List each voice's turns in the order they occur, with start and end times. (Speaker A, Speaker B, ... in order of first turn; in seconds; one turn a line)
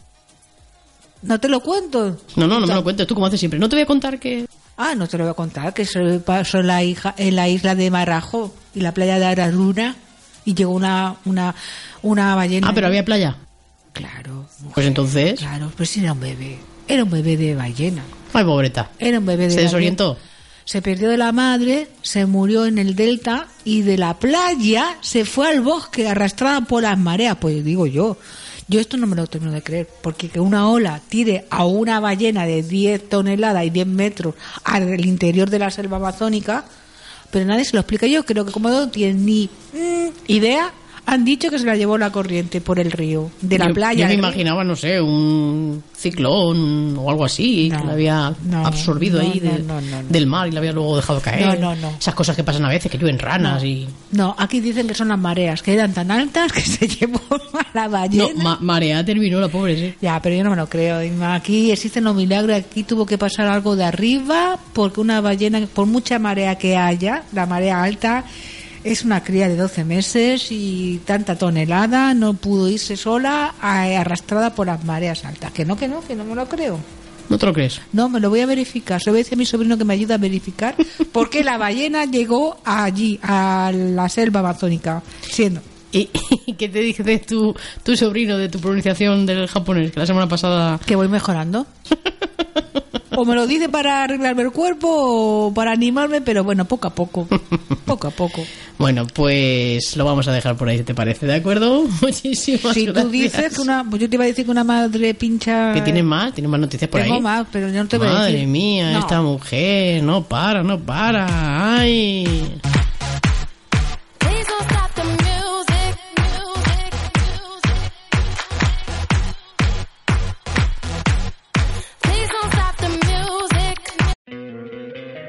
Speaker A: 1.2-2.8
Speaker B: 2.4-4.5
Speaker A: 4.8-13.0
Speaker B: 12.6-13.4
Speaker A: 13.9-18.1
Speaker B: 14.8-15.5
Speaker B: 18.3-18.9
Speaker A: 19.0-20.0
Speaker B: 19.5-20.2
Speaker A: 20.7-36.6
Speaker A: 37.3-44.4
Speaker B: 43.6-54.0
Speaker A: 47.6-50.2
Speaker A: 51.3-52.0
Speaker A: 53.4-58.5
Speaker B: 58.1-60.0
Speaker A: 60.0-68.3
Speaker A: 68.8-76.8
Speaker B: 77.3-77.8
Speaker A: 77.9-85.7
Speaker B: 85.9-90.8
Speaker A: 90.9-91.7
Speaker A: 93.1-98.5
Speaker B: 98.8-103.6
Speaker A: 102.7-106.0
Speaker B: 105.7-107.3
Speaker A: 106.9-109.2
Speaker B: 107.9-112.6
Speaker C: 114.2-117.5
Speaker C: 122.0-124.0